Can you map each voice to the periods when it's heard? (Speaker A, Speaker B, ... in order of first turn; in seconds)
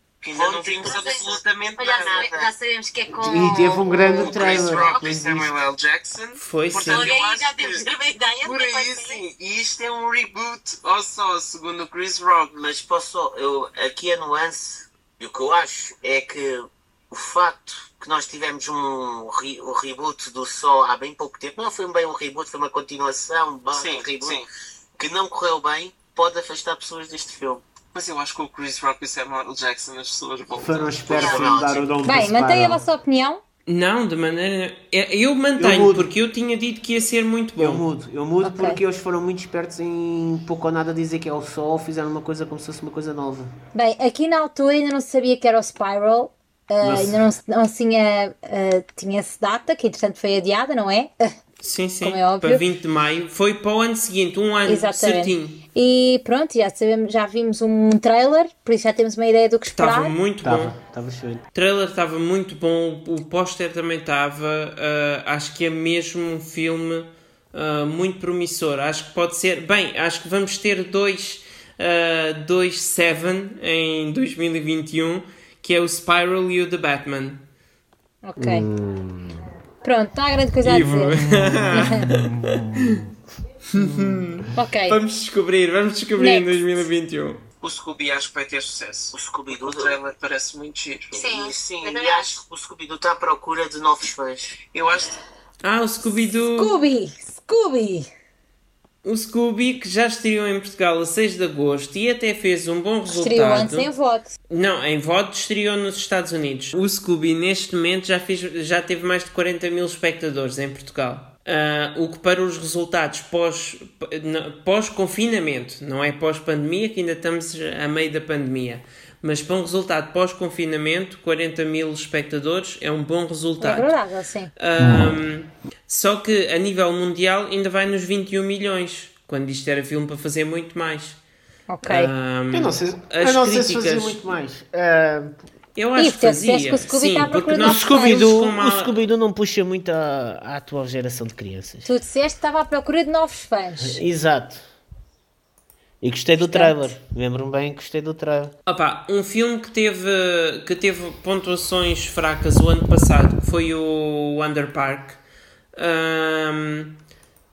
Speaker A: 0.2-2.5, 12.5-24.4, 25.0-27.7, 31.1-31.8, 89.1-90.0, 91.1-94.6
Speaker B: 0.3-2.3, 4.0-7.9, 8.4-12.5, 23.7-24.5, 27.9-31.9, 87.6-91.1, 94.6-95.2
Speaker C: 0.8-5.1, 6.8-9.2, 91.1-92.4
Speaker D: 3.2-5.5, 30.6-32.8, 35.6-36.1, 37.6-43.5, 46.8-47.2, 60.4-61.4, 78.4-79.5, 81.1-83.1, 83.7-84.5, 124.8-125.1, 132.5-135.4, 137.6-141.9, 143.8-144.6, 146.0-148.6
Speaker E: 6.4-7.1, 33.7-37.8, 51.6-55.6, 59.8-60.8, 61.5-77.4, 80.6-83.0, 83.7-87.4, 95.6-96.7, 99.0-103.9, 104.5-124.0, 124.6-131.2, 131.9-134.2, 135.8-139.0, 148.7-155.2, 155.7-156.9
Speaker F: 32.0-33.4, 38.4-38.8, 43.7-51.4, 52.0-52.6, 54.7-60.1, 78.2-78.7, 79.8-81.2, 81.7-82.1, 84.5-85.0, 86.2-86.8, 96.5-98.1, 103.1-104.3, 123.6-124.5, 131.7-132.1, 135.9-138.2, 141.8-144.0, 146.4-146.9